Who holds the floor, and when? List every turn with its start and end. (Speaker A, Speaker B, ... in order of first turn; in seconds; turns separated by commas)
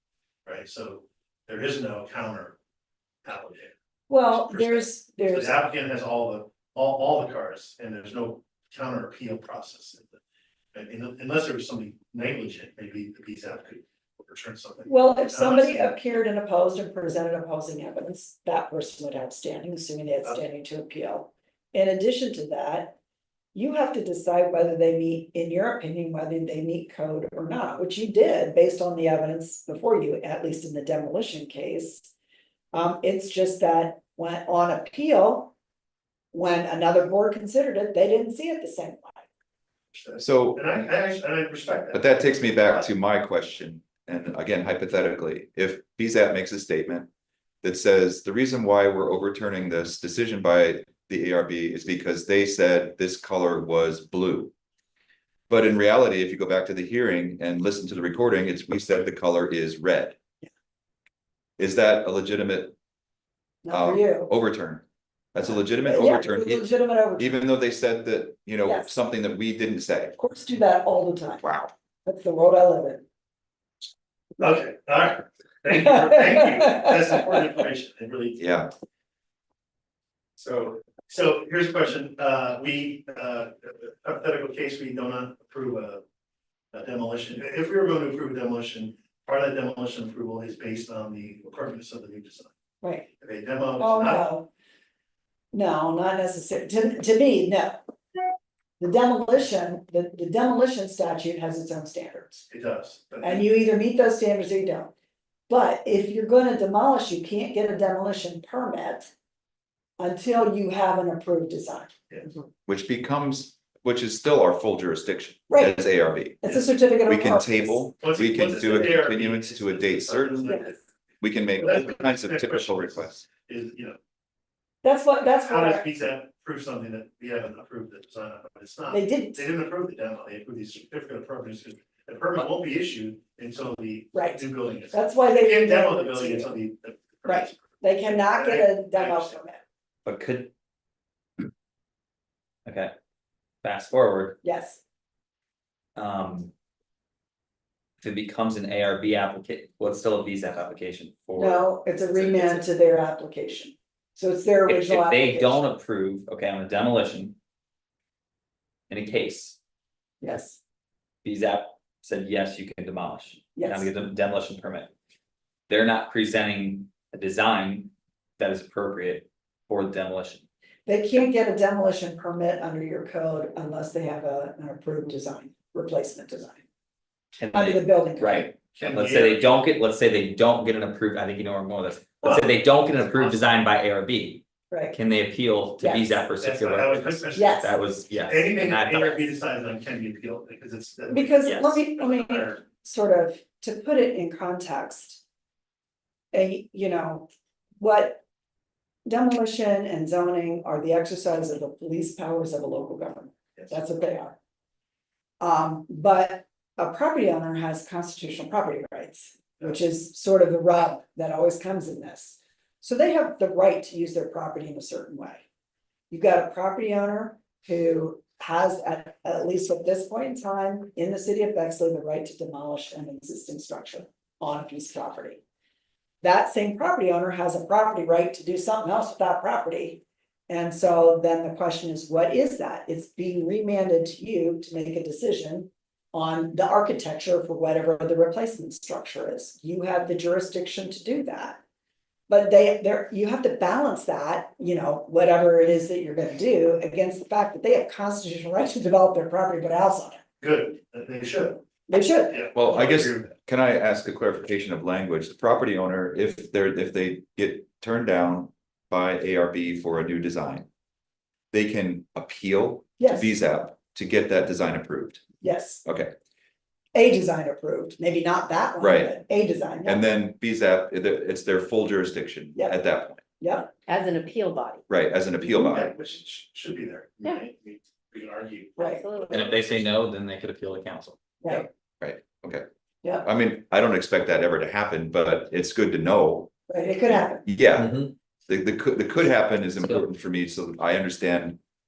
Speaker A: 0.5-2.6, Speaker A: 3.2-3.7, Speaker B: 4.1-5.6, Speaker A: 4.3-10.2, Speaker A: 10.7-16.0, Speaker B: 14.9-23.0, Speaker B: 23.5-32.1, Speaker B: 32.7-35.5, Speaker B: 36.3-39.3, Speaker A: 39.9-42.9, Speaker C: 40.2-40.7, Speaker C: 41.9-47.1, Speaker C: 47.6-54.5, Speaker C: 55.5-60.2, Speaker C: 61.6-62.8, Speaker B: 63.6-64.3, Speaker C: 63.7-70.2, Speaker B: 65.8-67.4, Speaker B: 68.7-68.9, Speaker B: 70.2-71.4, Speaker C: 71.4-71.7, Speaker B: 72.0-73.0, Speaker A: 74.4-78.4, Speaker B: 76.3-76.8, Speaker C: 78.4-78.7, Speaker A: 80.4-86.0, Speaker A: 86.7-92.5, Speaker B: 92.8-93.1, Speaker A: 93.2-94.4, Speaker B: 93.8-94.5, Speaker B: 95.5-97.8, Speaker B: 98.8-102.5, Speaker A: 102.5-103.5, Speaker B: 103.2-104.9, Speaker B: 105.5-109.1, Speaker B: 110.0-112.0, Speaker A: 112.1-112.4, Speaker C: 112.7-120.6, Speaker B: 115.5-115.8, Speaker B: 116.4-117.9, Speaker A: 118.0-120.8, Speaker C: 121.2-123.3, Speaker A: 121.6-124.0, Speaker B: 124.8-125.9, Speaker A: 125.4-139.4, Speaker B: 128.9-129.5, Speaker B: 134.1-136.5, Speaker B: 137.2-139.6, Speaker D: 140.1-140.5, Speaker D: 142.7-142.9, Speaker D: 143.6-144.4, Speaker B: 144.4-144.8, Speaker D: 146.0-146.5, Speaker D: 148.0-152.7, Speaker B: 151.4-155.7, Speaker D: 154.7-157.4, Speaker D: 158.9-159.6, Speaker B: 160.2-160.6, Speaker D: 161.2-164.9, Speaker B: 163.6-163.9, Speaker D: 165.7-170.4, Speaker B: 170.9-176.6, Speaker D: 177.3-189.3, Speaker B: 177.5-178.5, Speaker A: 178.8-179.7, Speaker A: 182.9-183.5, Speaker B: 184.7-185.0, Speaker B: 185.8-186.2, Speaker A: 186.4-192.6, Speaker B: 187.4-187.7, Speaker B: 191.1-195.2, Speaker D: 191.4-191.8, Speaker B: 196.3-198.2, Speaker B: 199.1-204.4, Speaker B: 205.4-215.4, Speaker B: 216.1-225.4, Speaker B: 226.2-241.6, Speaker B: 242.3-250.2, Speaker A: 250.4-251.6, Speaker B: 251.9-252.6, Speaker A: 252.3-253.3, Speaker C: 252.5-260.7, Speaker C: 261.5-265.2, Speaker B: 263.0-263.3, Speaker B: 265.4-265.8, Speaker C: 265.9-266.1, Speaker B: 266.9-270.1, Speaker C: 268.8-269.2, Speaker C: 269.9-273.2, Speaker B: 273.4-273.7, Speaker E: 273.9-274.8, Speaker C: 274.9-275.9, Speaker A: 275.4-278.8, Speaker B: 278.8-279.1, Speaker E: 278.8-279.8, Speaker D: 279.3-281.6, Speaker B: 281.4-281.7, Speaker C: 282.0-282.6, Speaker C: 283.2-286.5, Speaker B: 286.7-287.4, Speaker C: 287.4-291.6, Speaker D: 287.7-288.1, Speaker D: 289.8-290.1